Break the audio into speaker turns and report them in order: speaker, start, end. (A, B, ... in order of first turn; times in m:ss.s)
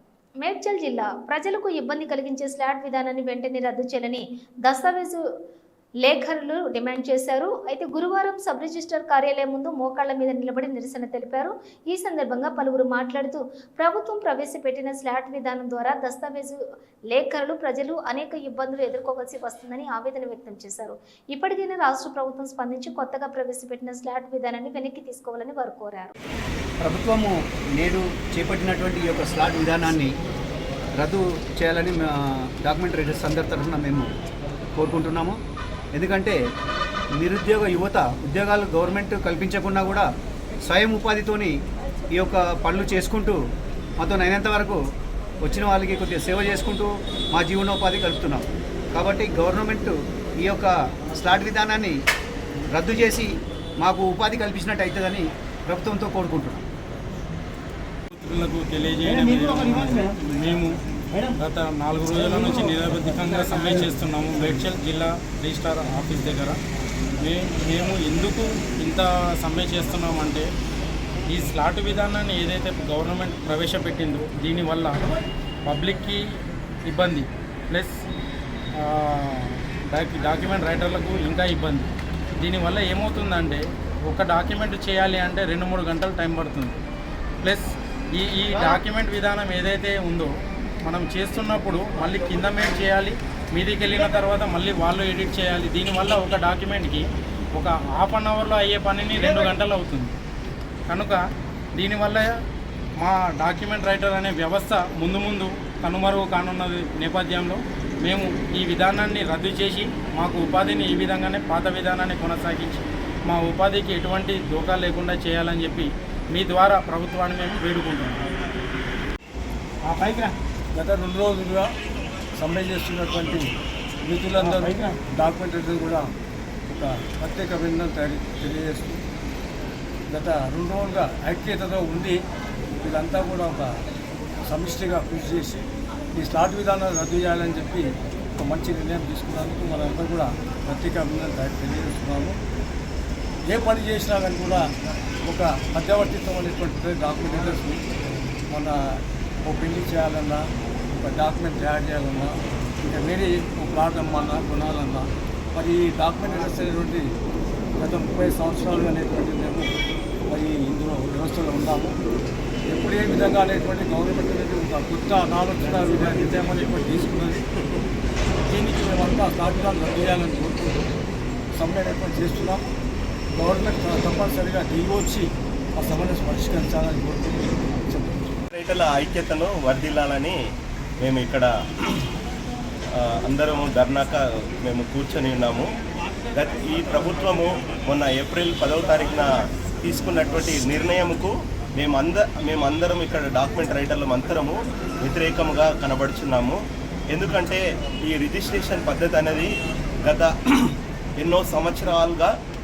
0:00.4-0:05.3 A
0:06.0-0:26.1 A
0:26.8-0:30.1 B
0:31.0-0:34.1 B
0:34.8-0:35.4 B
0:35.9-0:36.4 B
0:37.2-0:40.1 B
0:40.6-0:41.5 B
0:42.1-0:43.4 B
0:44.0-0:44.8 B
0:45.4-0:52.0 B
0:52.7-0:56.6 B
0:58.1-1:00.7 C
0:59.4-1:00.0 B
1:01.4-1:06.6 C
1:07.2-1:10.5 C
1:11.3-1:15.0 C
1:15.6-1:16.2 C
1:16.8-1:18.0 C
1:18.7-1:26.8 C
1:27.4-1:30.3 C
1:30.8-1:40.2 C
1:40.9-1:41.2 C
1:41.7-1:42.4 C
1:43.0-1:58.3 C
2:00.7-2:01.7 D
2:02.3-2:06.1 D
2:04.4-2:04.8 C
2:06.7-2:09.0 D
2:10.1-2:12.2 D
2:12.8-2:13.8 D
2:14.4-2:15.6 D
2:16.1-2:22.4 D
2:23.5-2:24.7 D
2:25.2-2:27.8 D
2:28.5-2:37.2 D
2:37.8-2:39.7 D
2:40.3-2:42.0 D
2:42.7-2:47.4 D
2:48.4-2:51.0 D
2:51.5-2:52.6 D
2:53.3-2:58.4 D
2:58.5-3:00.4 E
3:01.0-3:02.0 E
3:02.9-3:05.7 E
3:06.3-3:09.3 E
3:09.8-3:22.3 E